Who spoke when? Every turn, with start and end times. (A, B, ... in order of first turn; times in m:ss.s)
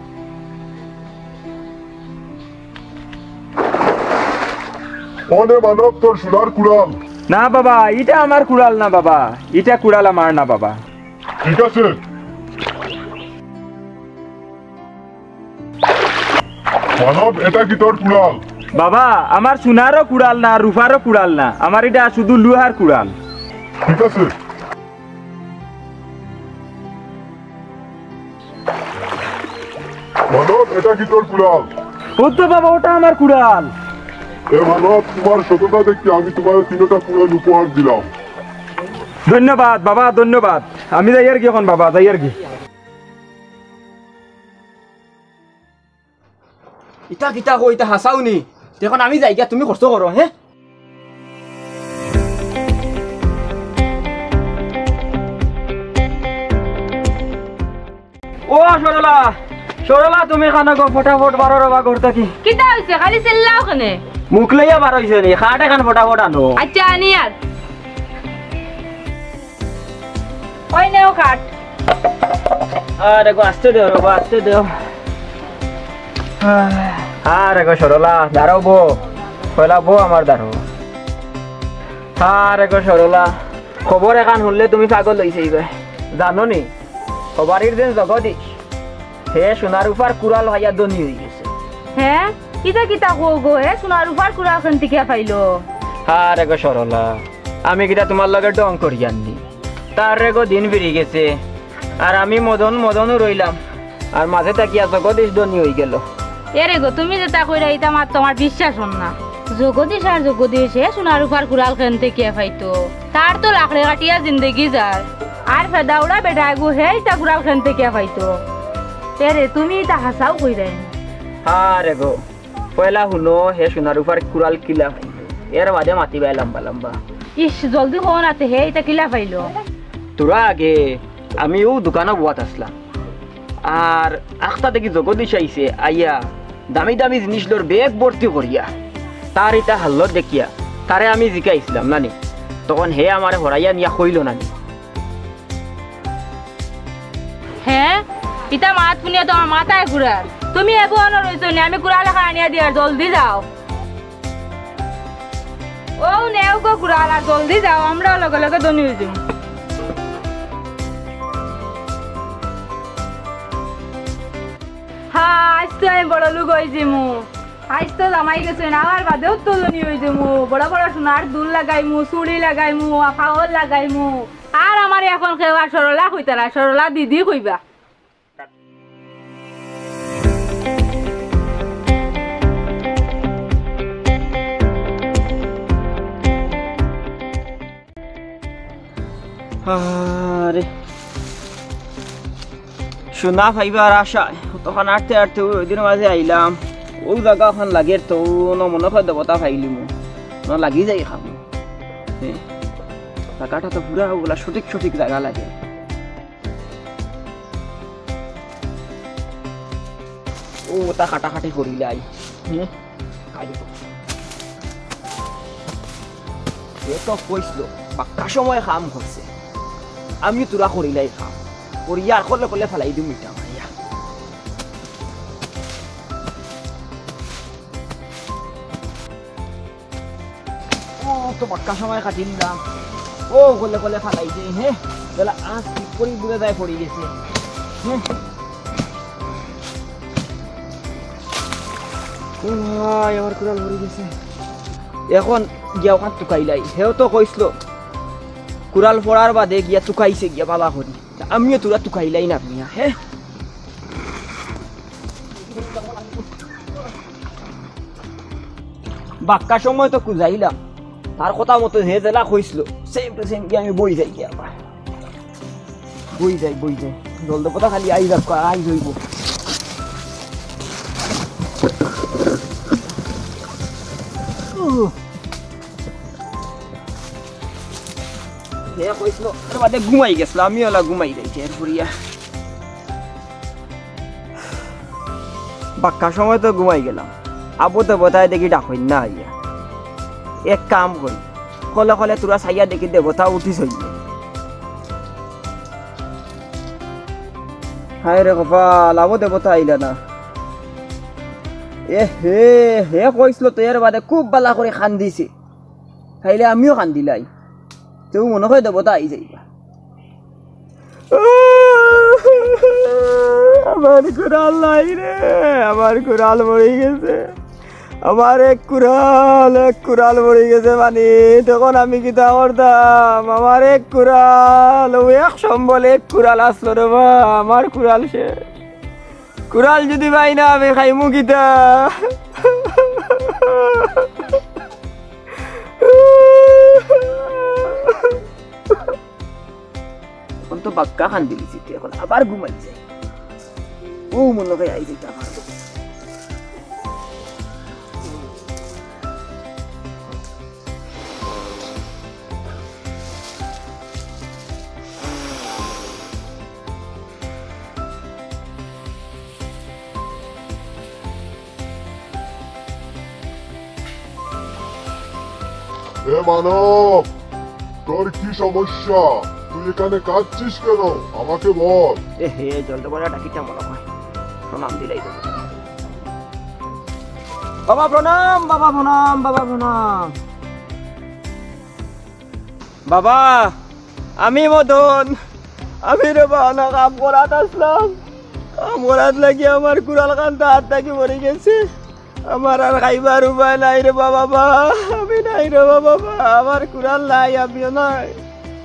0:05.3-0:07.0 A
0:07.3-0:10.8 B
0:11.4-0:11.9 A
0:17.0-0:18.4 A
0:18.8-0:23.1 B
0:23.8-0:24.3 A
0:30.3-0:31.7 A
0:32.2-0:33.7 B
0:34.5-0:38.1 A
0:39.3-0:42.4 B
0:47.1-0:50.3 C
0:58.5-1:02.3 C
1:02.4-1:04.0 D
1:04.3-1:06.6 C
1:06.6-1:07.3 D
1:10.7-1:11.5 D
1:13.0-1:14.7 C
1:16.4-1:19.0 C
1:19.5-1:20.6 C
1:22.2-1:26.7 C
1:27.4-1:28.6 C
1:29.3-1:31.5 C
1:32.0-1:35.6 D
1:36.1-1:39.4 C
1:40.0-1:41.4 C
1:42.0-1:43.6 C
1:44.1-1:46.0 C
1:46.6-1:58.4 D
1:59.2-2:00.9 D
2:01.4-2:02.2 C
2:02.8-2:07.0 C
2:07.4-2:09.5 D
2:10.2-2:12.7 C
2:13.6-2:18.7 C
2:19.3-2:22.2 C
2:22.7-2:24.5 C
2:27.6-2:33.4 D
2:36.0-2:39.2 D
2:45.1-2:57.6 D
3:09.6-3:10.7 C
3:13.1-3:19.9 C
3:20.4-3:21.4 C
3:23.4-3:25.5 C
3:30.7-3:32.7 C
3:33.3-3:33.7 C
3:36.8-3:39.3 C
3:40.2-3:43.7 C
3:51.0-3:52.6 C
3:53.3-3:57.1 C
4:02.4-4:04.1 C
4:05.1-4:07.6 C
4:08.7-4:13.0 C
4:19.2-4:20.6 C
4:21.2-4:24.6 C
4:26.1-4:29.0 C
4:38.7-4:41.9 C
4:45.8-4:49.3 C
4:50.5-4:54.0 C
4:58.0-5:00.0 C
5:01.9-5:05.3 C
5:06.2-5:07.3 C
5:08.1-5:09.4 C
5:11.1-5:17.3 C
5:18.0-5:28.4 C
5:29.5-5:34.3 C
5:35.8-5:38.2 C
5:40.5-5:42.8 C
5:44.1-5:45.5 C
6:06.1-6:07.1 A
6:07.9-6:12.0 A
6:12.2-6:13.8 C
6:14.5-6:15.5 C
6:17.7-6:20.2 C
6:22.9-6:23.6 C
6:24.2-6:25.2 C
6:25.8-6:28.0 C
6:28.6-6:31.6 C
6:32.3-6:38.2 C